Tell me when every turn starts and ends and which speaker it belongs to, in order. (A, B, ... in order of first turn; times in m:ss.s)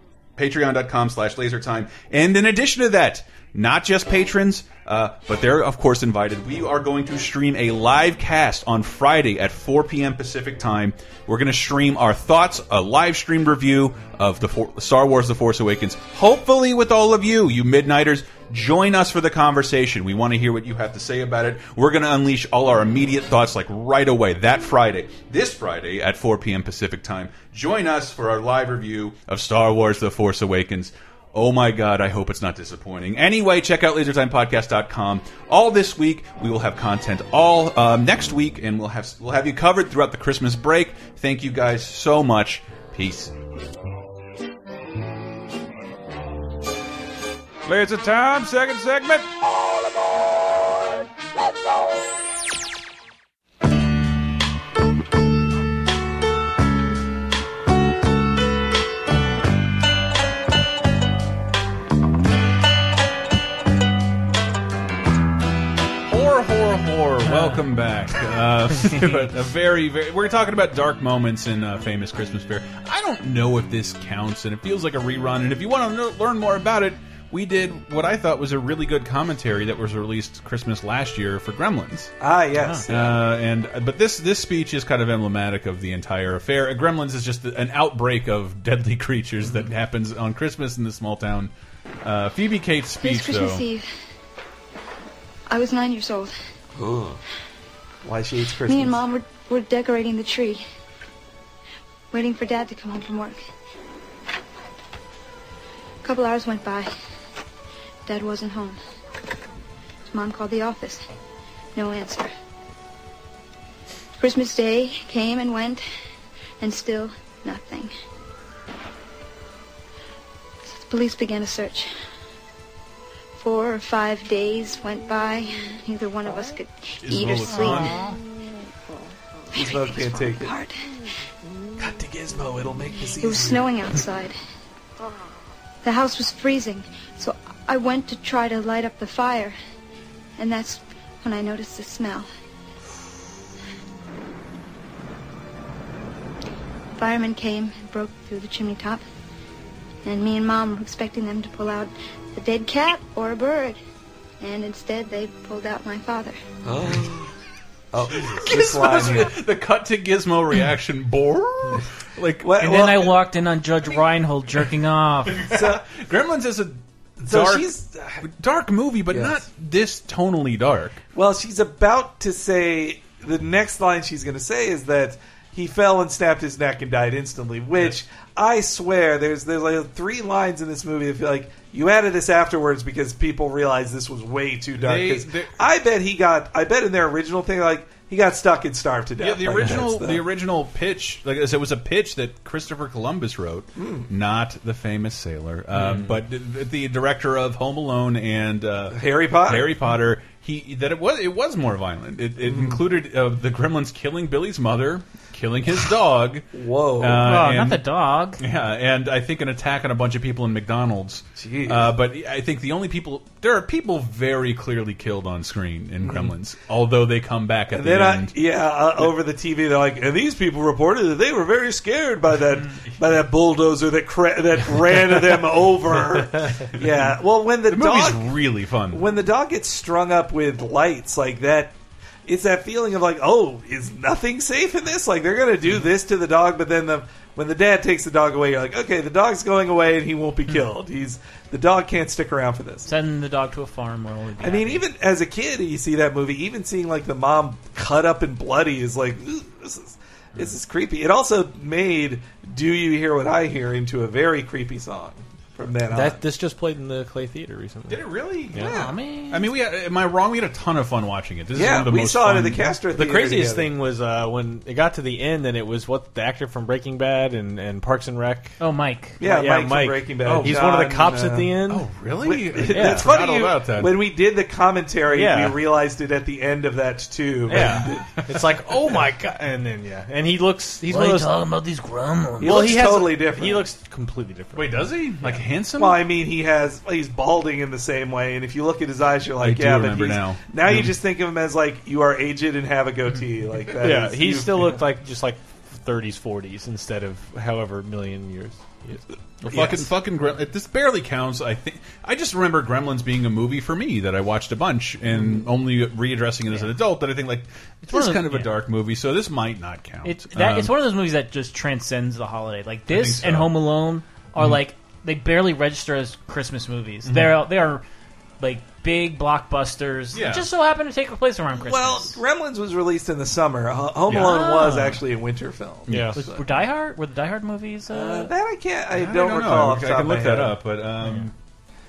0:00.4-0:43.3 A
0:47.7-0:49.1 B
1:06.1-1:22.1 A
1:07.3-1:07.6 C
1:08.8-1:09.2 C
1:22.2-1:23.2 B
1:22.9-1:31.5 A
1:32.0-1:33.6 A
1:33.0-1:33.9 D
1:35.5-1:36.3 D
1:36.8-1:37.2 B
1:38.0-1:39.0 B
1:38.7-1:40.6 D
1:42.1-1:43.4 D
1:46.0-1:46.9 D
1:48.1-1:48.8 D
1:50.1-1:51.1 D
1:51.8-1:52.3 D
1:54.2-1:55.8 D
1:56.6-1:57.9 D
2:00.7-2:01.9 D
2:03.4-2:08.0 D
2:07.0-2:08.1 A
2:09.5-2:10.6 B
2:09.5-2:10.8 D
2:11.8-2:13.7 B
2:13.2-2:14.4 D
2:15.8-2:19.6 D
2:20.4-2:22.3 D
2:27.0-2:29.0 D
2:30.0-2:33.8 D
2:34.4-2:36.4 D
2:36.6-2:37.3 B
2:37.9-2:39.3 B
2:38.4-2:42.5 A
2:42.4-2:43.2 B
2:42.6-2:45.5 C
2:45.4-2:45.9 B
2:45.5-2:47.7 A
2:47.2-2:48.2 B
2:48.2-2:51.0 A
2:49.1-2:49.4 B
2:51.2-3:10.2 B
3:04.8-3:05.6 A
3:09.2-3:26.5 A
3:13.8-3:14.1 B
3:18.9-3:19.7 B
3:22.4-3:22.8 B
3:26.5-3:27.3 B
3:27.0-3:27.8 A
3:27.2-3:28.4 C
3:28.4-3:38.3 A
3:31.4-3:31.9 B
3:36.0-3:36.3 B
3:37.7-3:48.4 B
3:47.7-3:49.1 A
3:48.9-3:51.8 B
3:52.3-4:02.9 B
4:02.8-4:04.8 C
4:04.4-4:16.2 B
4:15.9-4:18.8 E
4:17.9-4:22.7 A
4:18.6-4:19.5 C
4:21.5-4:23.7 B
4:23.0-4:28.6 E
4:28.6-4:29.2 C
4:29.2-4:31.6 B
4:29.2-4:31.9 E
4:30.3-4:30.6 A
4:31.7-4:34.0 A
4:32.2-4:38.2 B
4:32.7-4:33.1 E
4:35.1-4:35.6 E
4:37.5-4:41.5 E
4:40.9-4:42.6 C
4:42.4-4:45.2 E
4:42.4-4:43.7 B
4:44.5-4:46.0 A
4:45.8-4:54.8 B
4:49.4-4:50.9 A
4:53.8-4:59.0 E
4:59.4-5:10.7 A
5:07.9-5:08.5 C
5:10.0-5:17.8 C
5:12.9-5:13.5 A
5:17.0-5:17.4 A
5:18.4-5:22.2 C
5:20.1-5:20.5 A
5:21.6-5:26.4 B
5:24.1-5:25.0 C
5:25.9-5:26.1 A
5:26.2-5:28.3 C
5:27.9-5:30.6 B
5:28.9-5:31.3 A